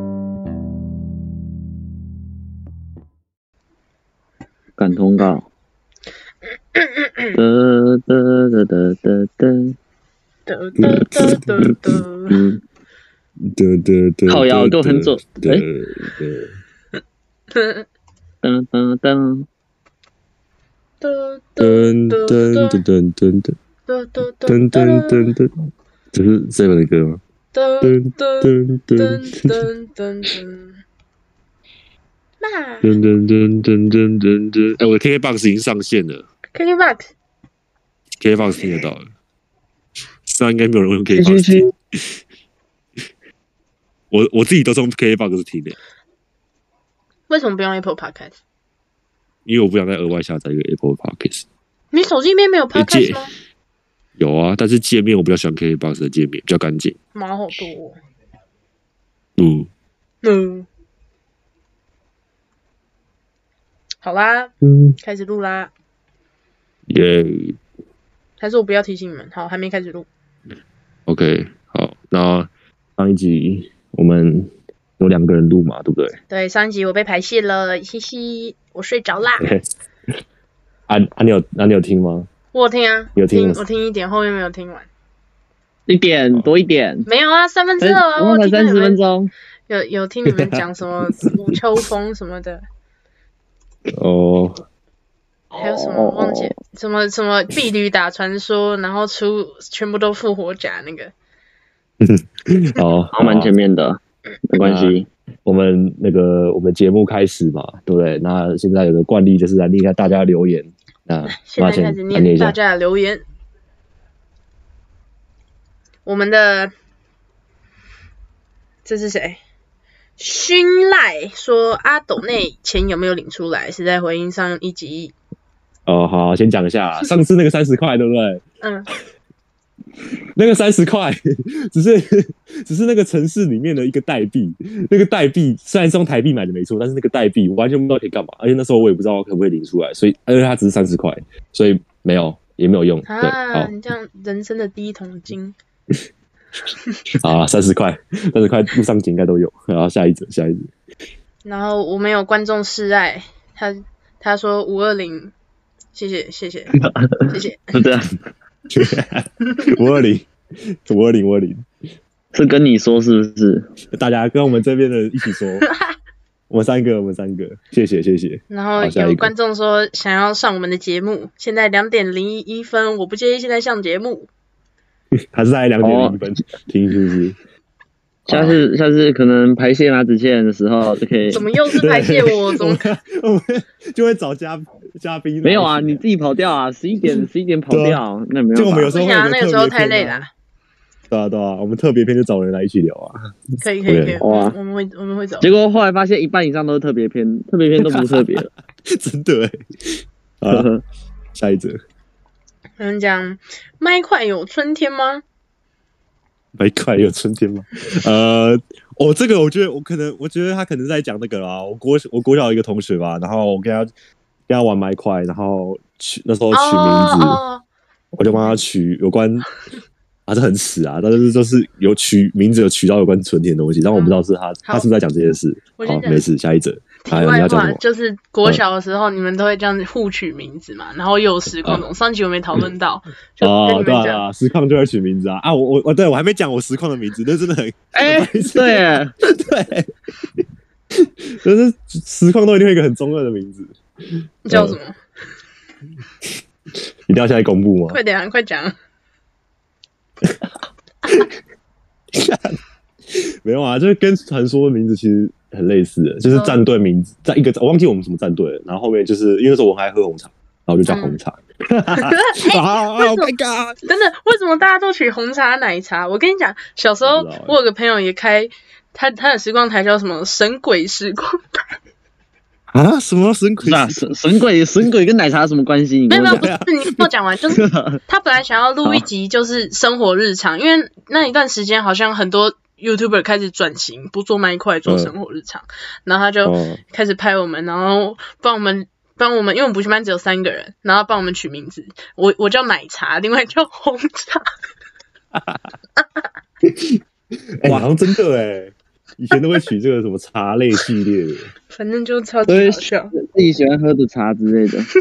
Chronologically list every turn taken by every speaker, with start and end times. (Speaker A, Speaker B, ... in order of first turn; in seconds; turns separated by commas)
Speaker A: 4.8-5.5, Speaker B: 6.8-7.4, Speaker A: 7.3-9.8, Speaker B: 10.5-12.4, Speaker C: 10.8-12.0, Speaker A: 12.3-12.6, Speaker C: 13.5-16.5, Speaker A: 14.3-15.7, Speaker B: 17.5-17.9, Speaker A: 18.4-19.5, Speaker B: 21.0-22.8, Speaker C: 21.6-23.6, Speaker B: 23.9-25.3, Speaker C: 24.5-25.5, Speaker C: 26.1-27.2, Speaker B: 27.5-30.8, Speaker C: 27.8-29.6, Speaker B: 32.4-33.0, Speaker C: 32.8-36.2, Speaker B: 36.5-37.1, Speaker C: 38.2-39.0, Speaker C: 40.3-41.7, Speaker A: 41.2-41.7, Speaker C: 44.1-45.8, Speaker B: 47.3-48.4, Speaker C: 49.5-51.5, Speaker B: 51.9-53.3, Speaker C: 52.7-53.3, Speaker C: 54.2-57.0, Speaker B: 57.1-58.0, Speaker C: 59.4-59.7, Speaker B: 60.2-60.7, Speaker B: 64.0-65.7, Speaker C: 64.6-65.0, Speaker C: 66.9-67.6, Speaker B: 68.4-70.1, Speaker C: 71.1-76.2, Speaker B: 76.3-79.5, Speaker C: 79.4-79.7, Speaker C: 80.9-82.3, Speaker B: 82.5-84.9, Speaker C: 83.2-83.6, Speaker A: 85.9-87.1, Speaker B: 87.1-89.0, Speaker A: 87.8-89.3, Speaker B: 89.7-92.6, Speaker C: 90.3-90.6, Speaker C: 91.2-91.5, Speaker C: 93.9-94.6, Speaker A: 95.5-96.5, Speaker B: 95.6-101.1, Speaker C: 102.0-103.5, Speaker A: 103.1-105.1, Speaker C: 104.6-112.6, Speaker B: 111.2-113.2, Speaker B: 116.0-116.7, Speaker B: 118.8-119.4, Speaker B: 120.2-125.1, Speaker C: 125.9-128.4, Speaker B: 128.6-128.9, Speaker C: 130.3-143.7, Speaker B: 143.1-145.6, Speaker C: 147.2-150.7, Speaker B: 151.4-155.3, Speaker B: 155.9-156.8, Speaker A: 156.8-158.1, Speaker B: 157.3-157.9, Speaker C: 158.7-160.3, Speaker C: 160.9-161.7, Speaker A: 162.3-163.7, Speaker C: 163.9-165.7, Speaker B: 165.6-165.9, Speaker C: 166.5-169.3, Speaker B: 168.5-174.3, Speaker C: 175.3-177.4, Speaker A: 175.8-176.4, Speaker C: 178.3-178.6, Speaker A: 178.3-181.4, Speaker B: 181.3-182.9, Speaker C: 181.8-186.0, Speaker A: 185.4-188.9, Speaker C: 187.7-188.0, Speaker C: 188.5-190.2, Speaker B: 188.9-190.3, Speaker C: 191.1-194.2, Speaker B: 193.6-195.5, Speaker A: 194.2-194.6, Speaker A: 195.4-198.5, Speaker C: 197.8-200.7, Speaker A: 200.5-200.8, Speaker C: 201.4-201.8, Speaker B: 202.8-205.2, Speaker C: 206.6-213.9, Speaker C: 214.5-217.4, Speaker B: 216.5-217.6, Speaker C: 218.1-219.5, Speaker B: 218.3-218.6, Speaker C: 220.3-227.8, Speaker B: 223.9-224.9, Speaker B: 225.8-226.2, Speaker B: 227.0-234.2, Speaker C: 233.4-239.9, Speaker A: 237.9-239.1, Speaker C: 240.9-243.7, Speaker B: 244.5-245.0, Speaker C: 244.5-244.8, Speaker C: 247.1-248.0, Speaker B: 247.9-248.8, Speaker C: 250.2-250.5, Speaker C: 252.1-252.6, Speaker C: 253.1-263.8, Speaker B: 256.3-256.6, Speaker B: 260.9-261.2, Speaker B: 261.9-263.3, Speaker B: 263.9-271.6, Speaker C: 267.0-267.6, Speaker C: 272.7-274.0, Speaker A: 273.6-276.5, Speaker B: 276.1-294.5, Speaker C: 276.3-277.1, Speaker A: 277.6-278.0, Speaker C: 284.9-285.1, Speaker C: 286.4-286.8, Speaker C: 295.3-295.6, Speaker C: 296.6-297.0, Speaker C: 297.6-301.5, Speaker B: 301.7-303.1, Speaker A: 302.5-304.9